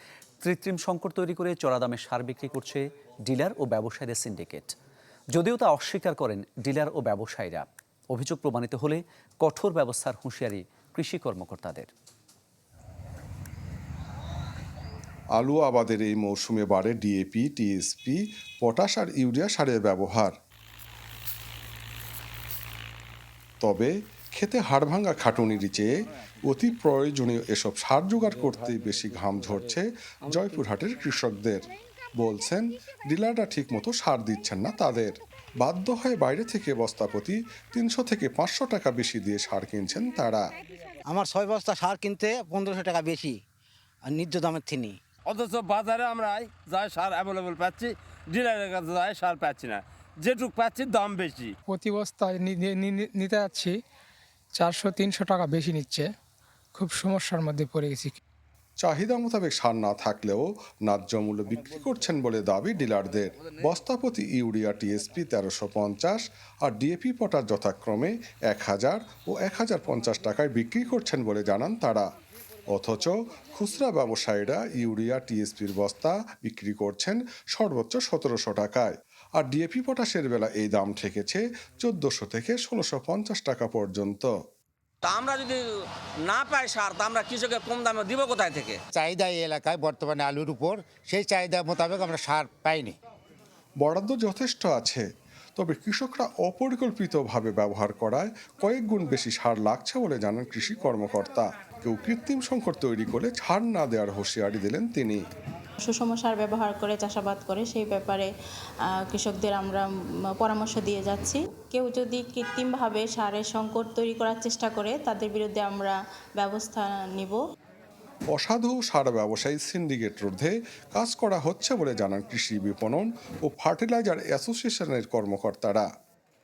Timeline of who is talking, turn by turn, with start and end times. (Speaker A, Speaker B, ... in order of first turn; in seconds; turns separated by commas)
Speaker A: 0.4-4.8, Speaker A: 5.3-11.9, Speaker B: 15.4-20.3, Speaker B: 23.6-40.5, Speaker C: 41.1-43.4, Speaker C: 44.0-45.0, Speaker D: 45.3-51.5, Speaker E: 51.7-53.8, Speaker E: 54.5-56.1, Speaker E: 56.8-58.2, Speaker B: 58.8-72.1, Speaker B: 72.7-84.3, Speaker F: 85.1-85.6, Speaker F: 86.3-88.8, Speaker G: 89.0-93.0, Speaker B: 93.8-95.0, Speaker B: 95.6-105.2, Speaker H: 105.8-108.3, Speaker H: 109.0-109.9, Speaker H: 110.4-117.4, Speaker B: 118.3-125.9